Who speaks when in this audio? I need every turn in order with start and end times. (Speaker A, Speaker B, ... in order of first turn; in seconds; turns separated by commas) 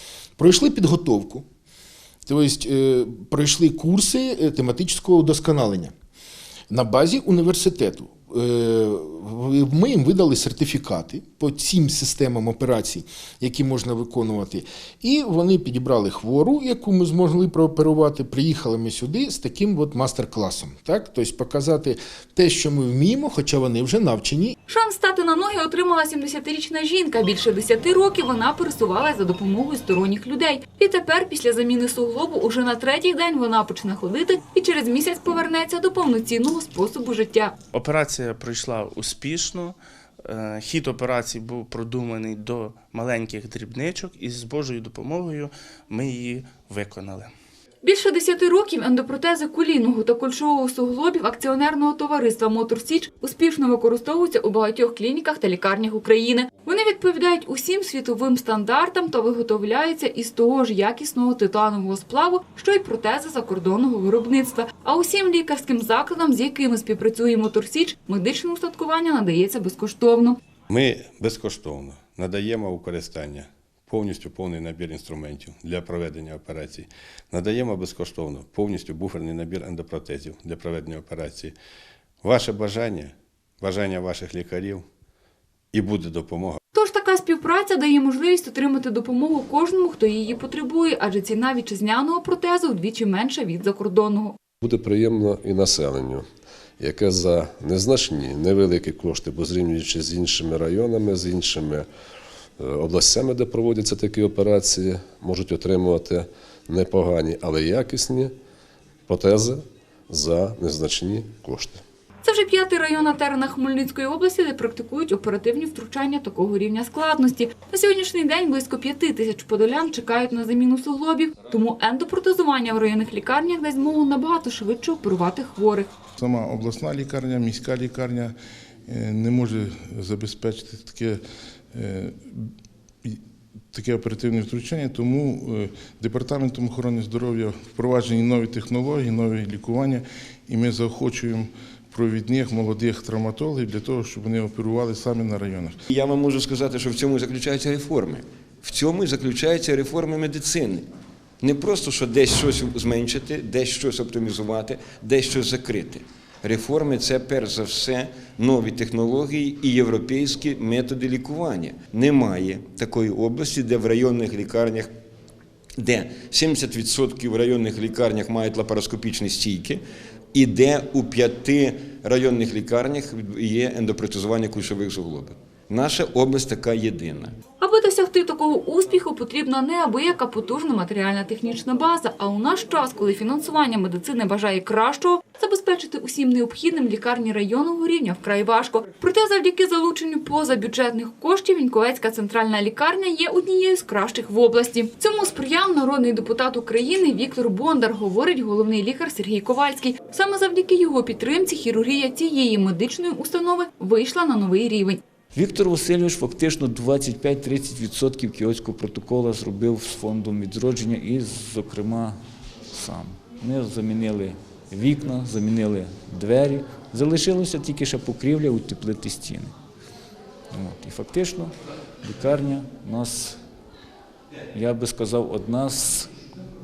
Speaker A: 0.4-1.4, Speaker A: 2.3-5.9, Speaker A: 6.7-24.5, Speaker B: 24.7-37.5, Speaker C: 37.7-47.3, Speaker B: 47.8-70.4, Speaker D: 70.7-81.5, Speaker D: 82.2-84.8, Speaker D: 85.7-86.6, Speaker B: 86.7-94.4, Speaker E: 94.6-96.3, Speaker E: 96.8-101.9, Speaker E: 102.6-108.3, Speaker E: 109.1-111.8, Speaker B: 112.2-125.9, Speaker F: 126.2-128.3, Speaker F: 128.9-131.2, Speaker F: 131.7-132.4, Speaker F: 133.7-145.8, Speaker G: 145.9-150.9, Speaker G: 151.4-164.9, Speaker G: 165.8-177.4, Speaker B: 177.6-205.0, Speaker H: 205.3-212.2, Speaker H: 212.7-219.5, Speaker H: 220.5-223.4, Speaker H: 224.5-226.1